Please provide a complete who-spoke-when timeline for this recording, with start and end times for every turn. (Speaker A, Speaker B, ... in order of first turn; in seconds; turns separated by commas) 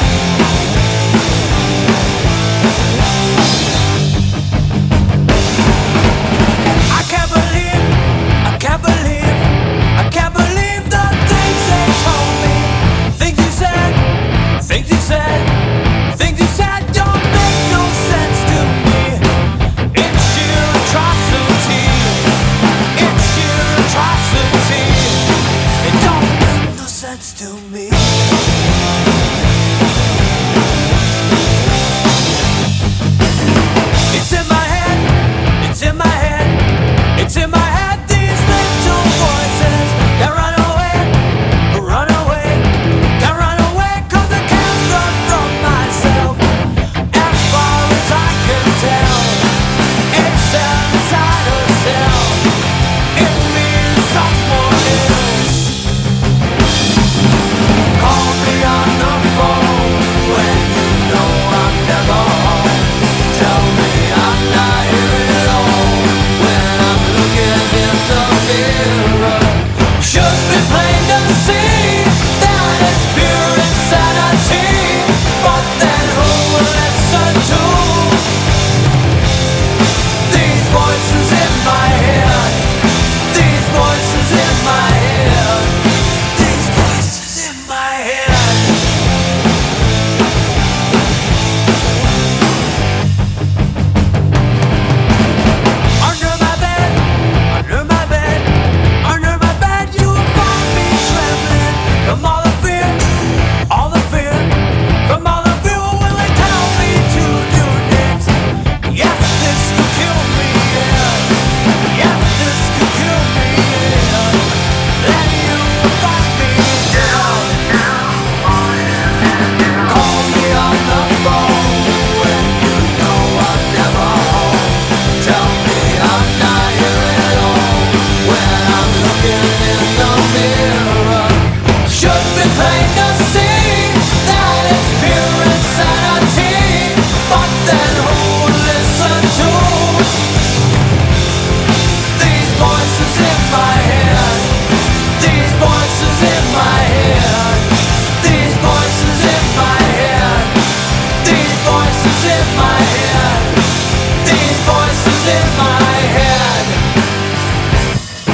Speaker A: 6.7-19.3, Speaker A: 19.9-22.4, Speaker A: 22.9-28.3, Speaker A: 34.1-46.6, Speaker A: 47.1-52.6, Speaker A: 53.1-55.8, Speaker A: 57.9-78.3, Speaker A: 80.2-88.9, Speaker A: 96.0-140.3, Speaker A: 142.1-156.8